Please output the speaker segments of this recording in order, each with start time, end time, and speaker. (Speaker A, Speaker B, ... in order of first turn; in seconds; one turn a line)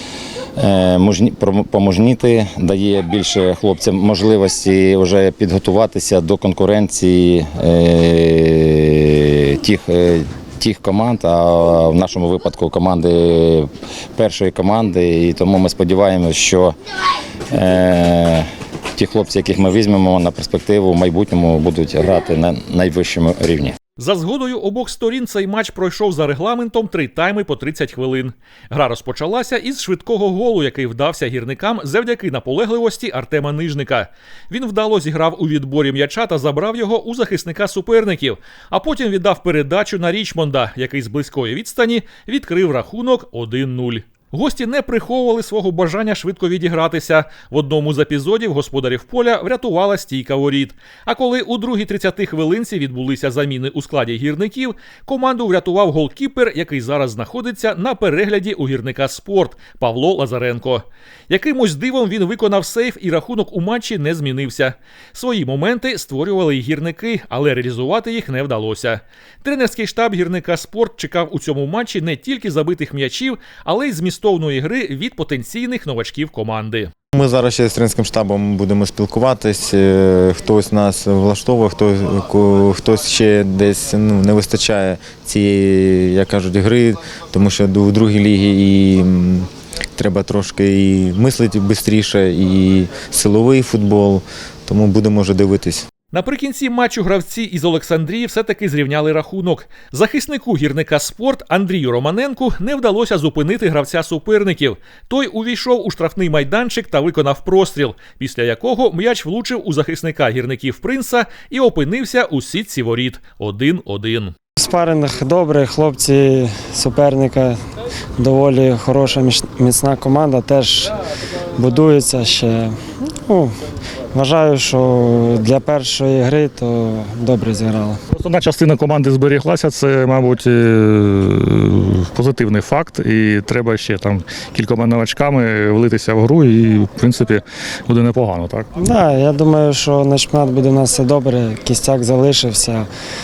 Speaker A: 0.6-16.7
Speaker A: 17.5-23.7
Speaker B: 24.0-76.9
Speaker C: 77.1-95.8
Speaker B: 96.1-114.3
Speaker D: 114.6-117.6
Speaker D: 118.2-120.9
Speaker D: 121.6-123.5
Speaker D: 124.1-128.0
Speaker E: 128.1-138.7
Speaker D: 138.8-142.9